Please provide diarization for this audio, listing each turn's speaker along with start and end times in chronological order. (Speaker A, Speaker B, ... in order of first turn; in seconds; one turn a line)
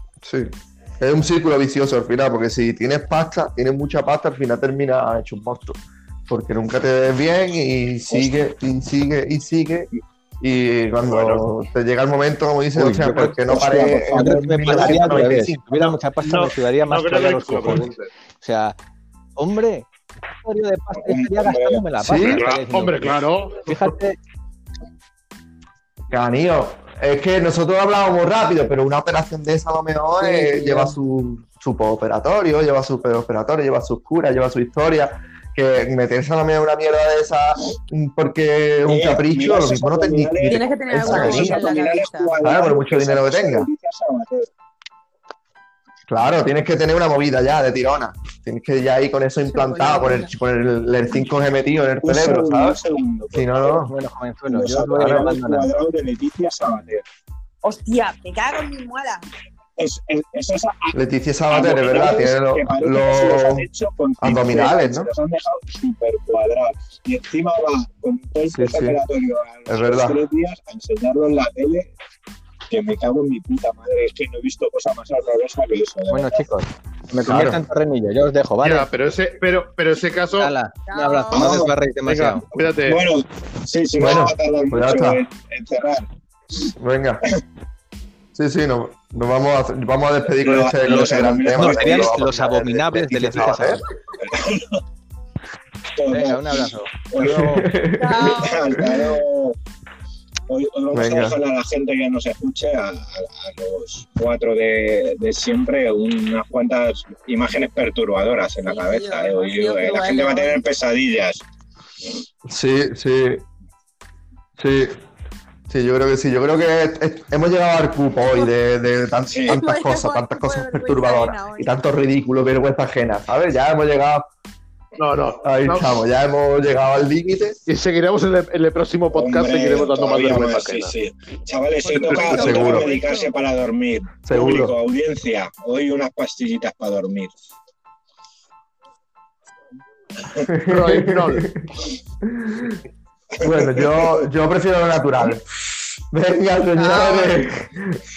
Speaker A: 0.2-9.9
Speaker B: 8.1-8.4
Speaker A: 10.4-15.9
Speaker C: 11.0-11.4
Speaker D: 12.7-17.9
Speaker B: 13.4-15.3
Speaker C: 16.2-18.1
Speaker D: 18.4-18.8
Speaker D: 19.4-24.2
Speaker B: 21.0-21.9
Speaker A: 22.0-22.4
Speaker C: 22.2-23.9
Speaker A: 26.1-41.7
Speaker E: 30.2-31.0
Speaker B: 38.9-44.5
Speaker E: 40.4-42.5
Speaker A: 42.4-43.7
Speaker A: 46.1-52.8
Speaker E: 49.5-50.3
Speaker B: 52.0-53.8
Speaker A: 53.3-53.9
Speaker D: 53.9-55.8
Speaker B: 54.5-57.0
Speaker A: 55.0-55.3
Speaker E: 57.6-59.3
Speaker B: 59.8-60.9
Speaker A: 60.9-63.6
Speaker B: 61.5-71.9
Speaker A: 64.2-65.1
Speaker A: 68.5-69.0
Speaker A: 69.7-70.2
Speaker B: 72.7-76.5
Speaker D: 76.1-78.9
Speaker A: 77.3-77.6
Speaker C: 78.6-80.5
Speaker D: 80.4-82.5
Speaker E: 80.9-81.6
Speaker B: 81.3-81.7
Speaker C: 82.0-83.0
Speaker B: 82.8-86.0
Speaker A: 84.0-85.2
Speaker A: 86.8-87.2
Speaker A: 88.3-92.3
Speaker B: 90.4-93.2
Speaker D: 90.9-93.8
Speaker A: 93.0-93.8
Speaker B: 94.2-94.8
Speaker B: 95.9-97.5
Speaker D: 96.1-97.7
Speaker A: 97.2-98.9
Speaker E: 98.0-98.8
Speaker B: 98.1-99.5
Speaker B: 100.5-111.4
Speaker A: 100.9-101.4
Speaker E: 108.6-110.7
Speaker A: 112.5-113.4
Speaker A: 114.6-114.9
Speaker A: 115.7-124.3
Speaker B: 119.3-119.5
Speaker E: 119.5-121.8
Speaker C: 125.0-125.9
Speaker A: 125.4-127.6
Speaker C: 127.7-130.9
Speaker B: 129.1-137.4
Speaker E: 131.8-133.3
Speaker C: 132.0-132.3
Speaker A: 132.2-132.9
Speaker A: 134.2-134.7
Speaker A: 140.4-141.7
Speaker C: 140.7-141.5
Speaker A: 142.2-142.8
Speaker A: 143.4-148.0
Speaker B: 143.4-144.2
Speaker E: 146.7-147.4